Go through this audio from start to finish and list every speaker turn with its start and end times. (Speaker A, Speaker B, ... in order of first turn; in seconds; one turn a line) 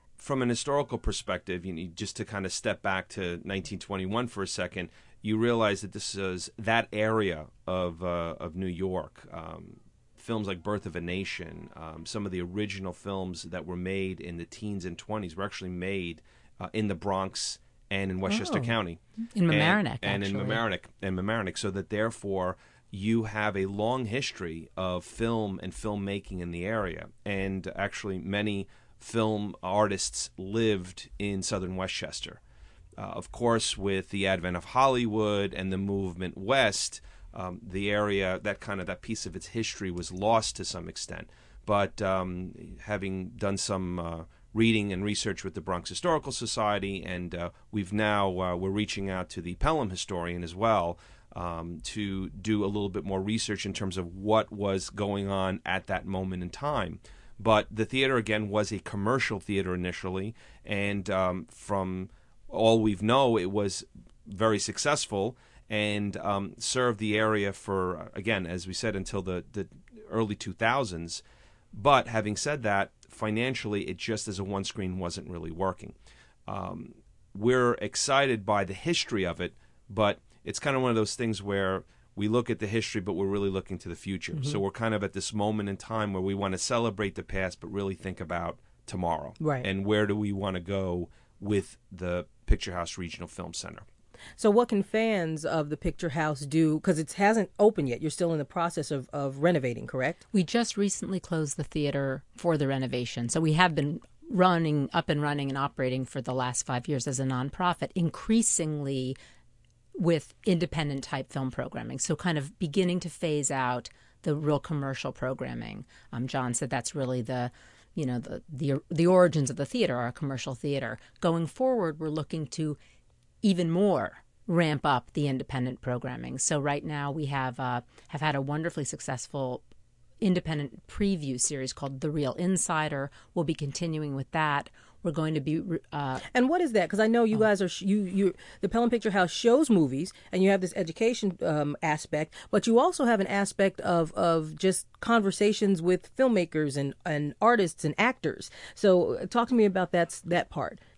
Speaker A: 0.2-32.4
Speaker B: 18.3-18.7
Speaker C: 19.4-20.6
Speaker A: 33.0-71.2
Speaker A: 71.7-76.0
Speaker A: 76.5-93.9
Speaker B: 89.4-89.7
Speaker B: 94.4-100.2
Speaker C: 100.3-109.2
Speaker C: 110.0-122.8
Speaker C: 123.4-129.6
Speaker C: 130.2-136.2
Speaker B: 136.3-150.8